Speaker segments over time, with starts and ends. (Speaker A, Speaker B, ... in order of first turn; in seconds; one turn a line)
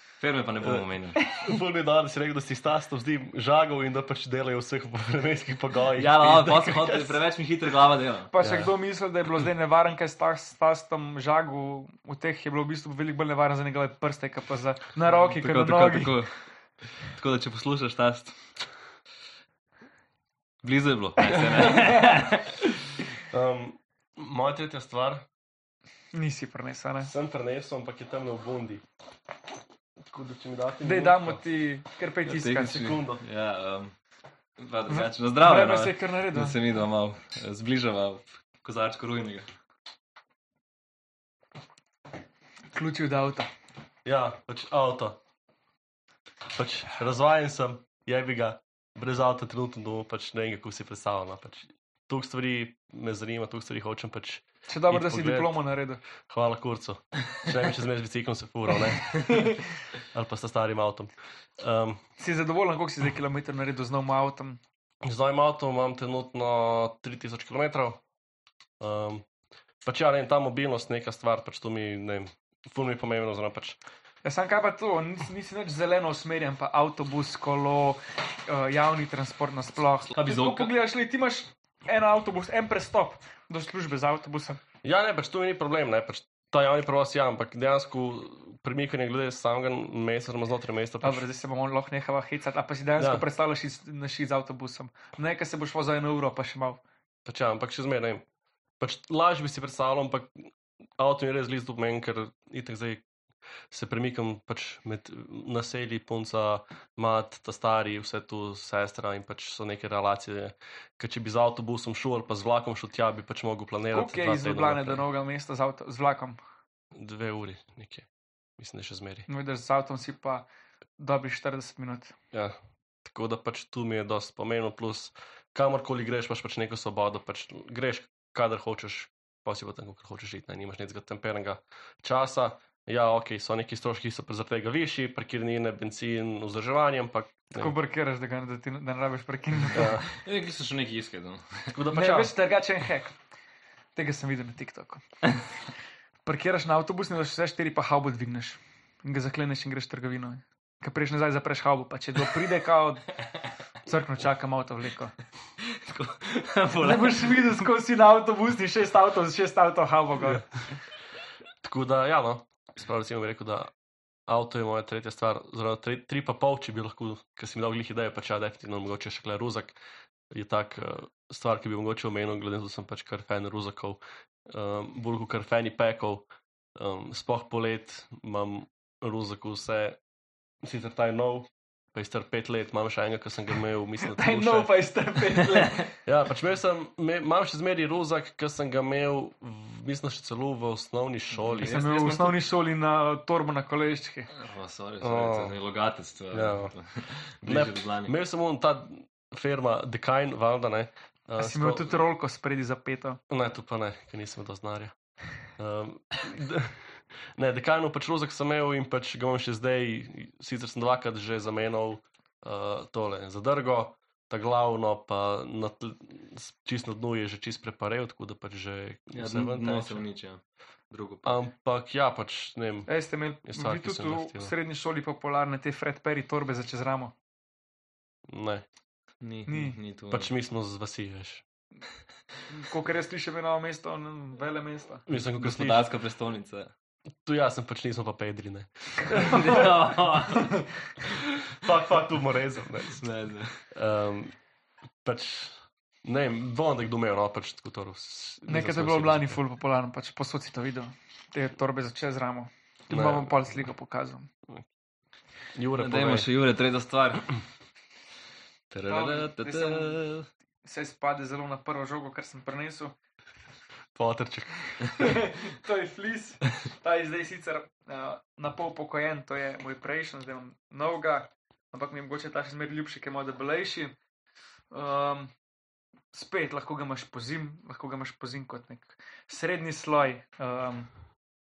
Speaker A: 0.2-1.2
Speaker B: 1.3-7.1
Speaker A: 6.0-8.3
Speaker C: 8.3-16.2
Speaker B: 8.4-8.7
Speaker A: 15.2-16.3
Speaker A: 17.1-18.4
Speaker A: 20.6-22.7
Speaker B: 23.2-25.2
Speaker C: 26.1-27.1
Speaker B: 27.0-28.8
Speaker B: 30.1-31.4
Speaker C: 30.8-32.9
Speaker A: 32.3-33.9
Speaker B: 32.5-33.2
Speaker A: 34.6-39.5
Speaker C: 34.9-36.6
Speaker C: 42.7-43.5
Speaker B: 44.0-45.2
Speaker B: 46.5-55.6
Speaker C: 54.7-56.0
Speaker B: 56.2-59.4
Speaker C: 59.2-59.6
Speaker B: 60.1-62.0
Speaker C: 62.2-64.6
Speaker B: 65.0-68.0
Speaker B: 68.8-69.2
Speaker B: 69.8-73.8
Speaker C: 74.2-84.6
Speaker A: 80.1-80.7
Speaker B: 84.8-91.2
Speaker C: 91.0-96.8
Speaker B: 93.0-93.2
Speaker B: 97.2-98.2
Speaker B: 98.8-103.0
Speaker B: 103.7-115.0
Speaker C: 113.9-116.4
Speaker B: 116.9-118.1
Speaker B: 118.6-119.2
Speaker C: 119.3-120.5
Speaker C: 121.0-122.1
Speaker B: 122.3-137.7
Speaker C: 137.5-140.1
Speaker B: 139.7-140.0
Speaker A: 140.1-141.8
Speaker B: 141.7-142.3
Speaker C: 141.9-143.2
Speaker C: 143.9-145.0
Speaker C: 146.2-153.1
Speaker C: 153.8-155.1
Speaker A: 155.6-157.4
Speaker C: 156.8-160.5
Speaker B: 161.6-163.7
Speaker B: 164.3-169.8
Speaker B: 170.3-180.0
Speaker B: 180.6-184.7
Speaker C: 184.0-185.9
Speaker B: 186.0-191.9
Speaker A: 191.4-192.4
Speaker C: 191.6-194.3
Speaker A: 194.3-198.1
Speaker B: 195.0-195.6
Speaker B: 196.3-196.7
Speaker B: 197.4-202.0
Speaker C: 201.4-203.2
Speaker B: 203.3-204.9
Speaker B: 205.6-220.0
Speaker A: 219.1-221.3
Speaker B: 221.2-222.9
Speaker C: 222.9-227.1
Speaker B: 223.4-224.5
Speaker B: 228.3-228.6
Speaker A: 229.2-230.3
Speaker C: 229.5-229.8
Speaker B: 230.1-231.4
Speaker C: 232.5-235.0
Speaker B: 235.1-235.8
Speaker A: 235.3-236.7
Speaker B: 237.2-239.4
Speaker A: 239.1-240.6
Speaker C: 239.2-239.6
Speaker B: 241.5-243.0
Speaker A: 243.0-243.6
Speaker B: 243.7-244.3
Speaker B: 245.0-249.4
Speaker C: 248.5-254.3
Speaker B: 252.9-253.6
Speaker B: 255.5-256.3
Speaker A: 255.7-257.2
Speaker A: 258.7-260.3
Speaker C: 258.9-260.0
Speaker C: 260.6-262.9
Speaker B: 263.9-264.5
Speaker C: 265.0-273.9
Speaker C: 274.7-275.3
Speaker C: 276.1-280.9